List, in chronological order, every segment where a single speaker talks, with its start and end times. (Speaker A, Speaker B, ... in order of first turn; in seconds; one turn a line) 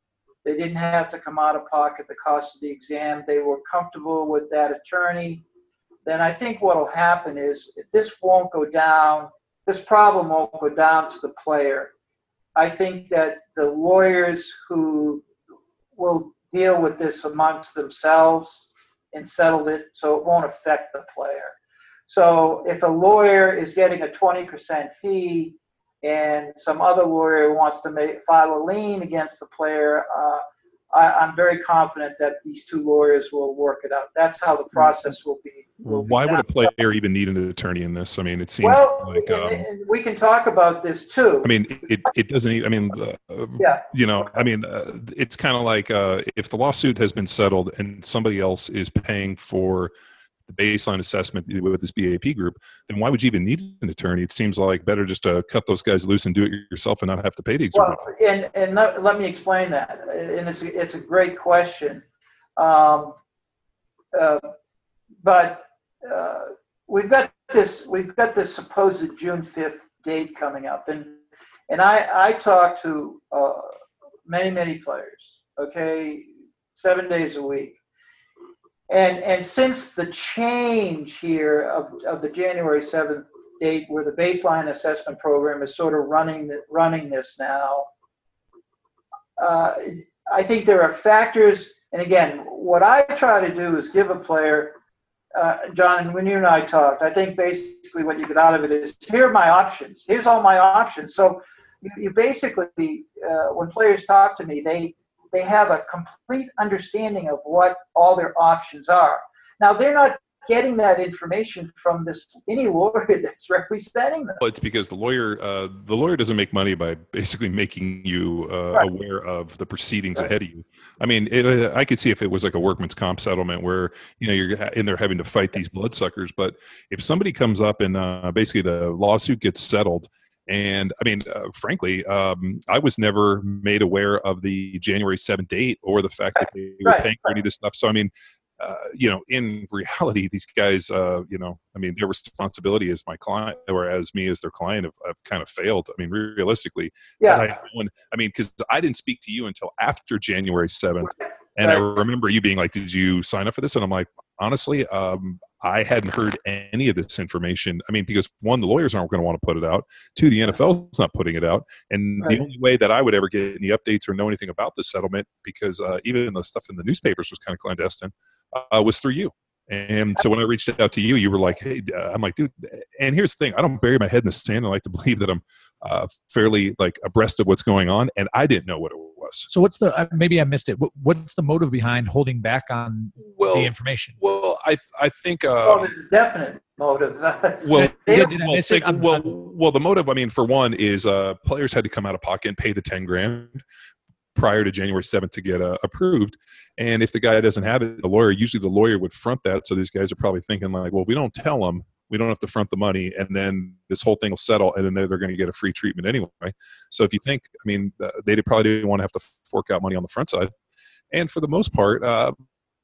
Speaker A: 0.4-5.4
Speaker A: 6.0-11.9
Speaker A: 12.6-15.2
Speaker A: 15.9-21.5
Speaker A: 22.1-36.7
Speaker B: 35.8-39.6
Speaker A: 38.6-41.5
Speaker B: 41.4-49.9
Speaker A: 43.6-43.8
Speaker B: 50.5-58.0
Speaker A: 57.7-62.0
Speaker A: 62.6-63.2
Speaker A: 64.1-64.5
Speaker A: 65.2-73.7
Speaker A: 74.3-77.8
Speaker A: 78.9-87.9
Speaker A: 89.4-94.7
Speaker A: 95.3-114.4
Speaker B: 114.4-179.5
Speaker A: 136.8-137.3
Speaker A: 147.2-147.5
Speaker C: 179.5-184.2
Speaker B: 183.2-185.9
Speaker A: 185.6-188.3
Speaker B: 187.6-193.6
Speaker C: 187.7-189.3
Speaker B: 194.3-210.5
Speaker B: 211.1-212.4